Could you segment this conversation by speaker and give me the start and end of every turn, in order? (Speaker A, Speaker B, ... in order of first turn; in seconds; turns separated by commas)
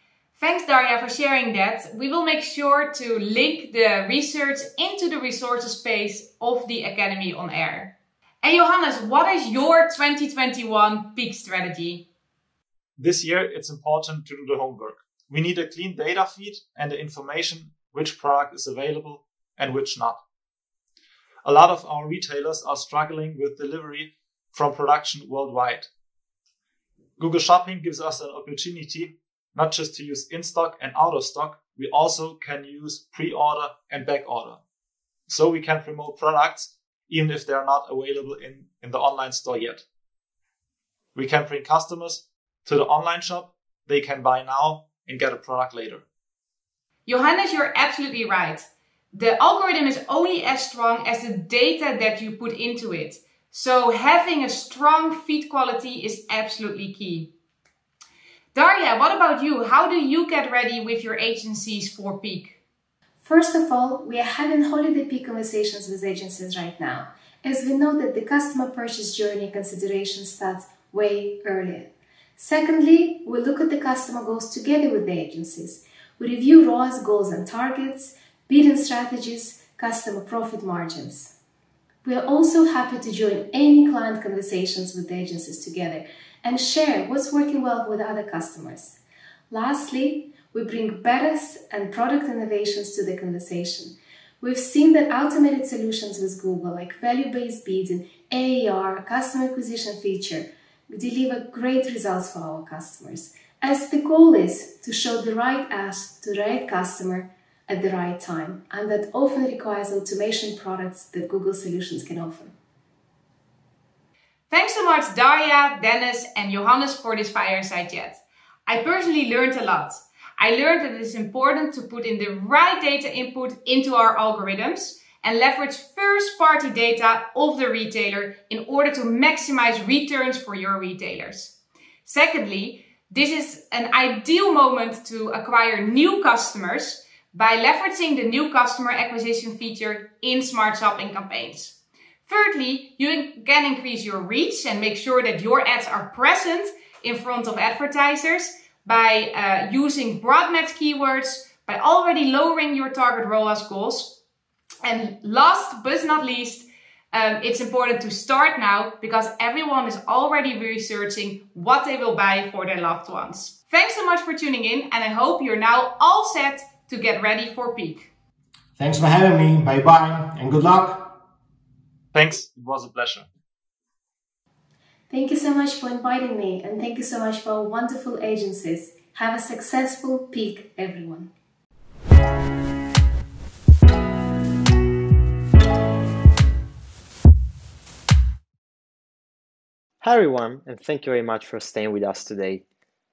Speaker A: 0.4-12.0, Speaker B: 13.0-20.2, Speaker B: 21.4-25.9, Speaker B: 27.2-34.6, Speaker B: 35.3-39.8, Speaker B: 41.1-46.0, Speaker A: 47.1-57.3, Speaker A: 58.5-62.6, Speaker C: 63.2-81.3, Speaker C: 82.0-89.0, Speaker C: 89.5-112.5, Speaker A: 114.5-131.5, Speaker A: 132.1-154.2, Speaker A: 154.8-168.1, Speaker D: 168.8-171.2, Speaker B: 172.1-173.3, Speaker C: 175.1-181.3, Speaker E: 190.0-192.6